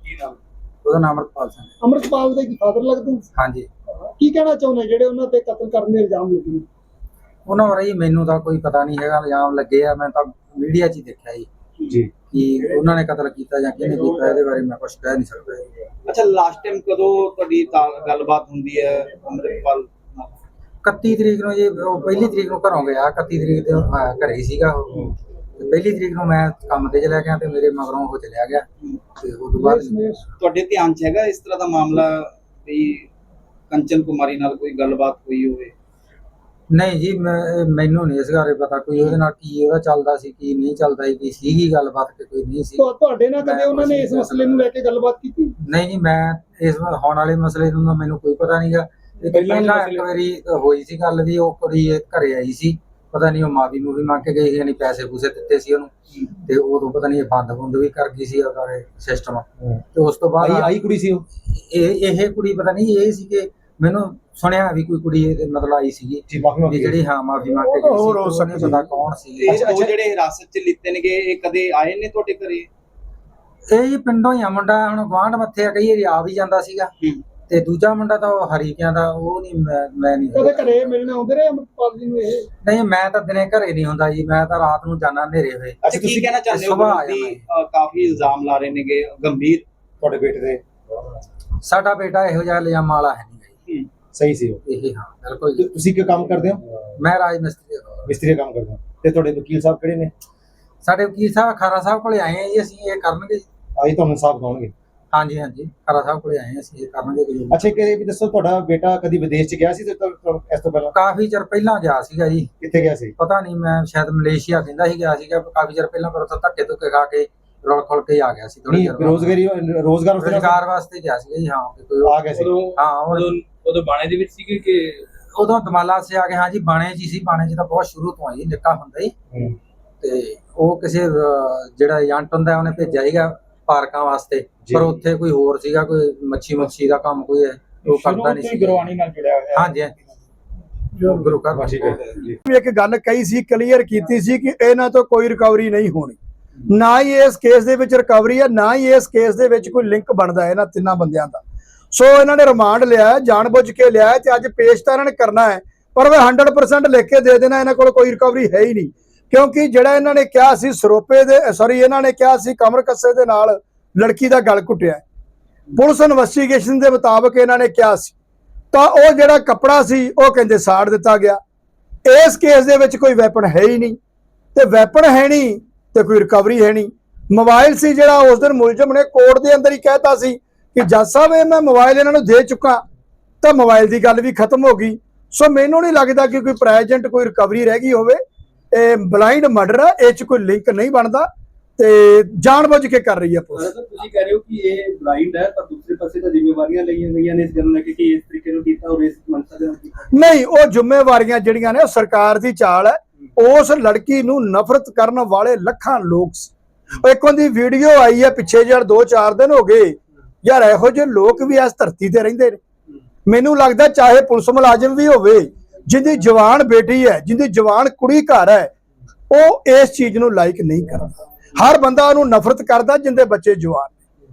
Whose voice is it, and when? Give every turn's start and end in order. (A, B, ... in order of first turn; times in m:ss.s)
0:00.8-0:01.8 A
0:01.8-0:03.3 B
0:03.4-0:03.7 A
0:04.2-0:06.7 B
0:07.5-0:11.5 A
0:12.3-0:15.7 A
0:16.0-0:20.3 C
0:20.8-0:28.6 A
0:29.2-0:30.0 A
0:29.6-0:30.2 B
0:30.4-0:33.1 C
0:33.7-0:35.7 C
0:36.7-0:44.7 A
0:42.8-0:45.6 B
0:45.7-0:55.9 A
0:49.3-0:49.9 D
0:56.5-1:00.7 A
1:00.4-1:01.2 E
1:01.5-1:09.7 A
1:06.3-1:07.0 E
1:07.6-1:08.8 F
1:09.4-1:12.7 C
1:09.5-1:09.9 E
1:13.7-1:16.9 A
1:17.5-1:21.0 A
1:20.3-1:22.5 B
1:22.6-1:25.8 A
1:25.8-1:26.3 E
1:25.8-1:29.7 C
1:26.4-1:27.4 A
1:30.0-1:30.6 E
1:31.6-1:33.5 A
1:34.1-1:34.6 E
1:34.7-1:35.8 A
1:35.6-1:36.6 E
1:37.0-1:38.1 A
1:38.1-1:40.1 E
1:40.8-1:43.4 A
1:43.8-1:44.7 E
1:45.1-1:48.0 A
1:47.5-1:50.9 E
1:50.9-1:52.5 A
1:52.6-1:53.1 E
1:53.2-1:59.4 A
1:58.7-2:00.6 E
2:00.2-2:03.4 A
2:02.1-2:02.6 E
2:02.4-2:05.0 D
2:05.3-2:09.2 A
2:10.0-2:19.0 A
2:17.9-2:19.3 D
2:19.5-2:19.9 A
2:21.0-2:22.0 A
2:21.7-2:22.3 E
2:22.5-2:26.2 F
2:26.7-2:31.4 F
2:31.9-2:45.0 F
2:45.8-2:48.1 F
2:48.7-2:51.4 F
2:52.1-2:54.0 F
2:54.6-3:02.8 F
3:03.4-3:13.7 F
3:13.6-3:20.1 D
3:20.1-3:32.6 F
3:33.3-3:38.7 F
3:39.3-3:44.0 F